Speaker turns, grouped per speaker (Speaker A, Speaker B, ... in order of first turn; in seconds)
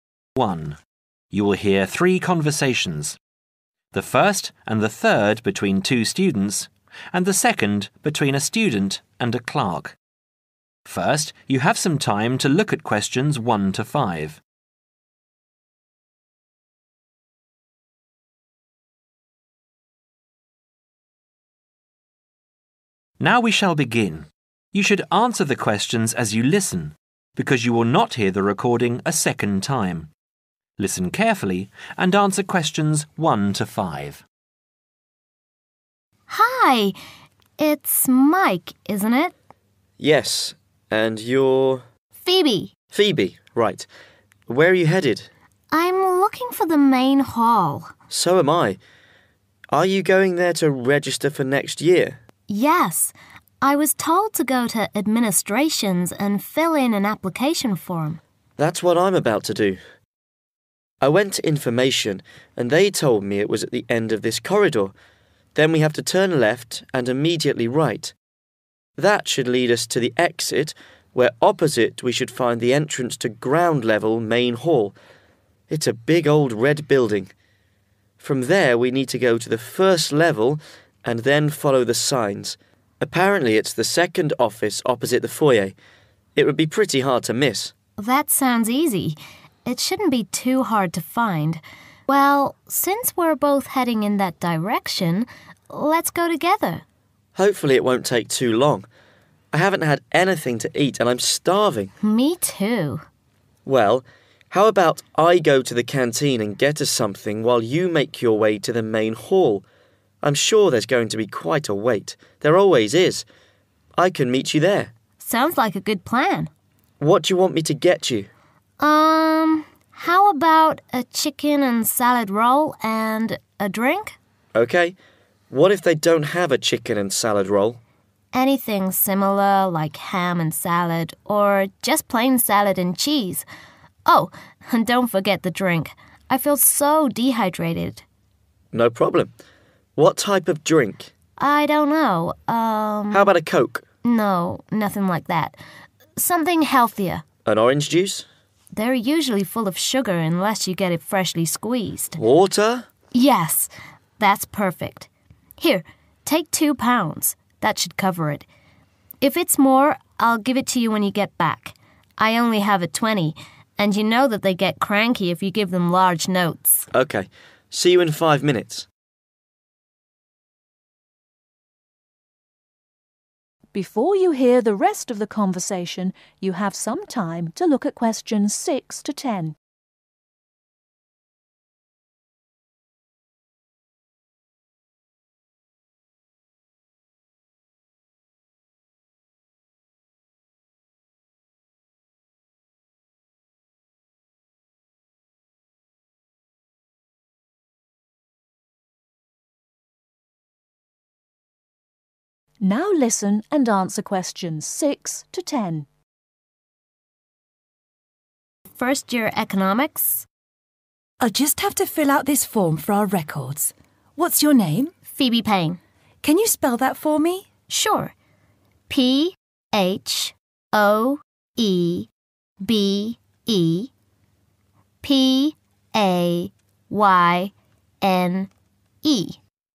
Speaker A: 0.4-0.8, 1.3-3.2, 3.9-9.9, 10.8-14.4, 23.2-30.1, 30.8-34.2
Speaker B: 36.3-36.9, 37.6-39.3, 42.2-42.7, 45.7-47.9, 52.5-58.2, 88.0-96.8, 102.0-103.0, 115.2-116.5, 118.8-124.2, 128.3-133.4, 134.1-138.0, 141.4-143.3, 144.0-145.6, 146.2-147.2, 148.7-152.2, 153.1-155.1, 155.6-158.4, 159.2-166.9, 208.8-210.2, 215.1-215.8, 217.7-218.1, 218.9-222.1, 222.6-223.9, 225.0-228.5, 229.0-229.4
Speaker C: 40.0-41.8, 42.9-43.9, 44.5-45.3, 48.1-48.8, 49.7-52.2, 58.6-59.8, 61.0-64.9, 65.5-68.1, 69.0-74.9, 75.7-77.3, 78.2-85.7, 86.3-87.7, 97.3-98.9, 99.5-101.9, 103.7-109.6, 110.2-113.2, 114.0-114.9, 117.0-118.3, 124.5-125.0, 125.5-127.8, 138.7-139.3, 140.0-141.1, 143.1-143.8, 147.4-148.2, 152.2-152.9, 166.9-168.8
Speaker D: 173.7-179.5, 202.6-205.8
Speaker E: 211.2-214.9, 216.2-217.5